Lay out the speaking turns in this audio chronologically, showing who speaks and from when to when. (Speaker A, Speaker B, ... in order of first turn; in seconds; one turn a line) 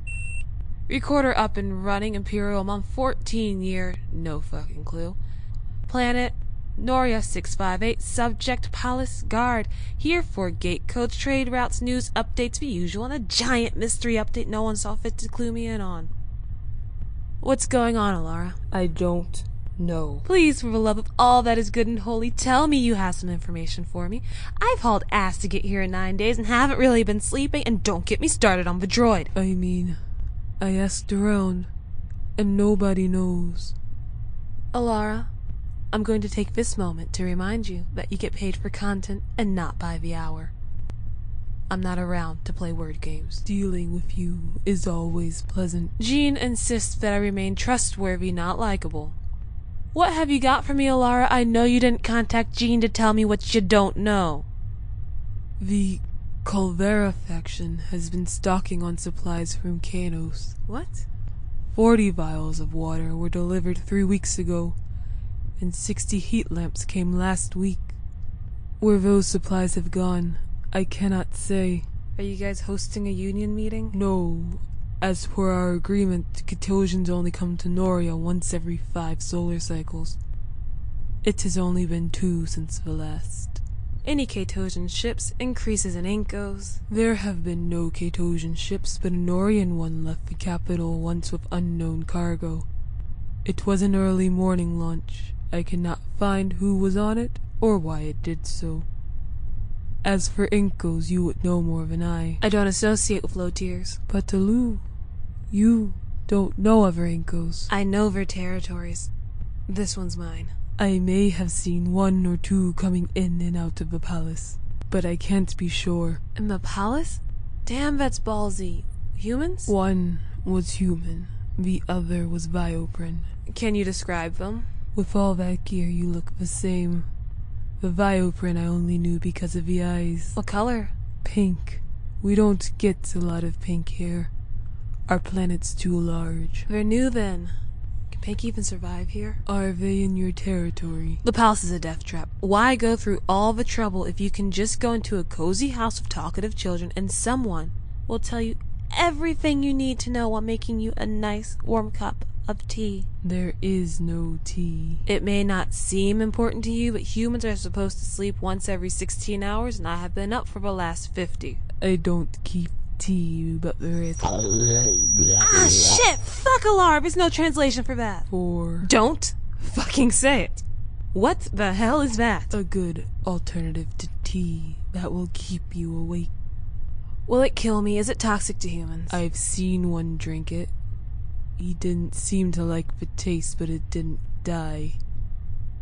Speaker A: 0.9-5.2
Speaker A: 5.9-16.1
Speaker A: 17.4-18.6
Speaker B: 18.7-20.2
Speaker A: 20.2-29.3
Speaker B: 29.3-30.0
Speaker B: 30.6-31.7
Speaker B: 32.4-33.7
Speaker A: 34.7-35.3
Speaker A: 35.9-40.5
Speaker A: 41.7-43.4
Speaker B: 43.4-45.9
Speaker A: 46.0-49.1
Speaker A: 49.9-54.5
Speaker B: 55.6-60.6
Speaker A: 60.7-61.0
Speaker B: 61.7-64.8
Speaker B: 65.6-68.0
Speaker B: 68.8-71.9
Speaker A: 72.2-74.0
Speaker B: 73.9-80.2
Speaker B: 81.2-83.6
Speaker A: 84.0-86.8
Speaker B: 86.9-92.7
Speaker B: 93.4-98.8
Speaker B: 100.0-102.4
Speaker A: 102.4-104.0
Speaker B: 104.0-104.8
Speaker B: 105.5-107.7
Speaker A: 107.7-109.1
Speaker A: 109.7-110.5
Speaker B: 110.8-116.2
Speaker A: 116.3-119.7
Speaker B: 119.7-123.3
Speaker A: 123.5-124.7
Speaker B: 124.9-127.1
Speaker B: 127.8-130.4
Speaker A: 130.3-130.9
Speaker B: 131.2-134.3
Speaker B: 135.1-136.7
Speaker A: 136.7-137.5
Speaker A: 138.1-139.4
Speaker B: 139.4-141.2
Speaker A: 141.2-153.1
Speaker B: 153.2-155.0
Speaker A: 155.1-161.6
Speaker B: 161.8-164.6
Speaker A: 165.2-168.3
Speaker B: 168.3-168.9
Speaker A: 168.8-172.5
Speaker B: 172.5-176.3
Speaker A: 177.2-179.2
Speaker B: 179.1-180.7
Speaker B: 181.6-185.0